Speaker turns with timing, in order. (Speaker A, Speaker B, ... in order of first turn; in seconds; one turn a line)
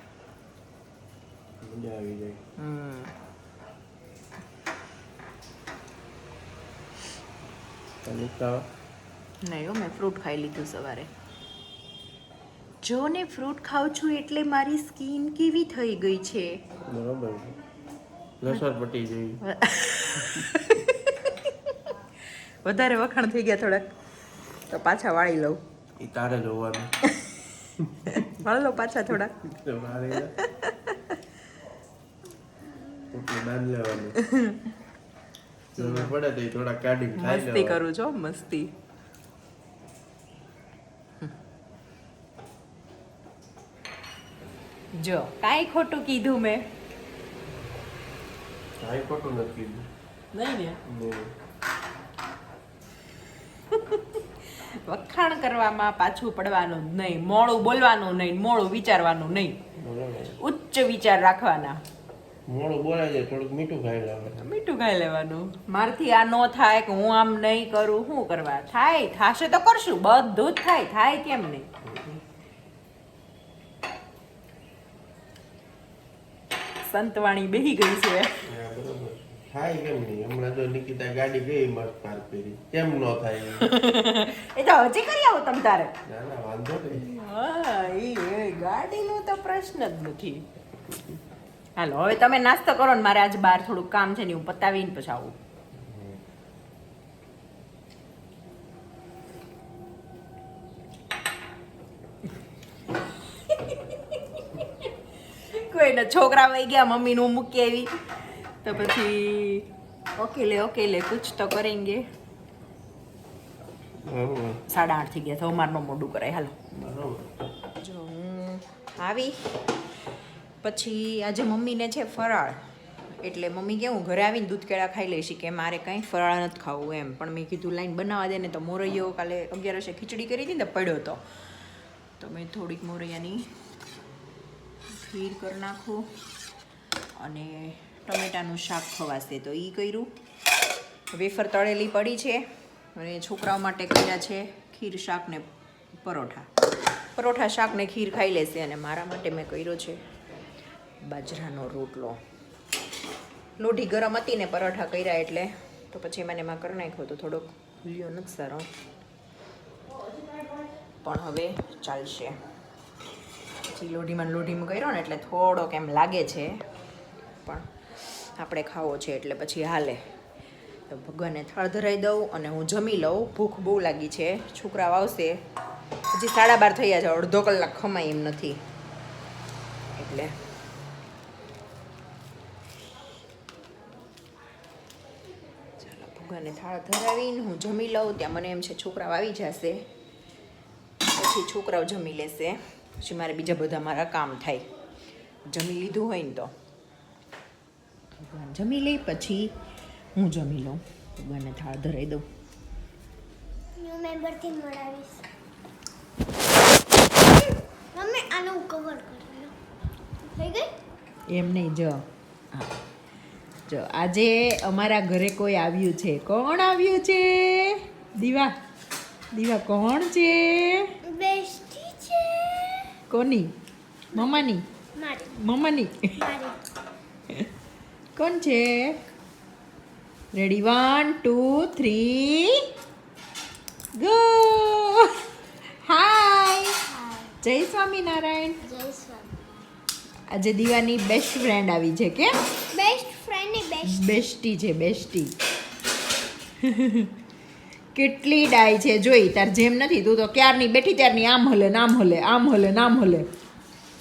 Speaker A: 1.6-2.4
Speaker B: 2.6-3.1
Speaker A: 8.0-8.6
Speaker B: 9.4-11.1
Speaker B: 12.8-16.6
Speaker A: 16.9-17.6
Speaker A: 18.4-19.4
Speaker B: 19.4-21.9
Speaker B: 22.6-23.9
Speaker B: 24.7-25.6
Speaker A: 26.0-26.9
Speaker B: 28.1-29.3
Speaker A: 29.6-30.3
Speaker B: 30.4-31.2
Speaker A: 33.1-34.1
Speaker A: 35.7-37.8
Speaker B: 35.8-36.1
Speaker B: 37.1-38.7
Speaker B: 45.0-46.6
Speaker A: 48.8-49.8
Speaker B: 50.3-50.8
Speaker A: 50.9-51.3
Speaker B: 53.7-54.2
Speaker B: 54.9-59.6
Speaker A: 59.8-60.4
Speaker B: 60.4-61.8
Speaker A: 62.5-64.4
Speaker B: 64.4-71.7
Speaker A: 71.8-72.2
Speaker B: 76.9-78.4
Speaker A: 78.5-83.6
Speaker B: 83.6-85.9
Speaker A: 86.1-87.0
Speaker B: 86.9-90.4
Speaker B: 91.8-95.3
Speaker A: 95.8-96.2
Speaker B: 105.5-107.9
Speaker B: 108.6-112.0
Speaker A: 114.0-114.6
Speaker B: 114.7-116.6
Speaker A: 116.8-117.3
Speaker B: 117.8-119.3
Speaker B: 120.6-122.6
Speaker B: 123.2-131.2
Speaker B: 132.2-133.4
Speaker B: 135.0-136.1
Speaker B: 137.2-140.1
Speaker B: 141.1-142.4
Speaker B: 142.9-146.5
Speaker B: 147.2-150.0
Speaker B: 151.0-152.2
Speaker B: 153.6-158.7
Speaker B: 161.0-162.3
Speaker B: 163.7-166.5
Speaker B: 168.4-170.0
Speaker B: 170.9-175.4
Speaker B: 176.1-178.6
Speaker B: 180.0-180.3
Speaker B: 185.8-189.8
Speaker B: 191.1-194.6
Speaker B: 195.5-196.5
Speaker B: 198.2-199.5
Speaker B: 200.2-202.2
Speaker C: 203.8-205.2
Speaker C: 207.3-209.5
Speaker C: 210.2-210.7
Speaker B: 211.3-212.7
Speaker B: 213.7-218.5
Speaker B: 219.3-220.8
Speaker C: 221.0-222.8
Speaker B: 223.1-223.5
Speaker B: 224.1-224.6
Speaker C: 224.1-225.3
Speaker B: 225.3-226.1
Speaker C: 226.2-226.6
Speaker B: 228.2-229.0
Speaker B: 230.3-232.6
Speaker B: 234.0-235.1
Speaker B: 235.8-236.8
Speaker C: 236.9-237.3
Speaker B: 237.4-238.6
Speaker C: 238.6-239.5
Speaker B: 240.3-242.3
Speaker C: 242.7-244.1
Speaker B: 243.8-245.3
Speaker B: 246.6-247.1
Speaker B: 247.9-253.2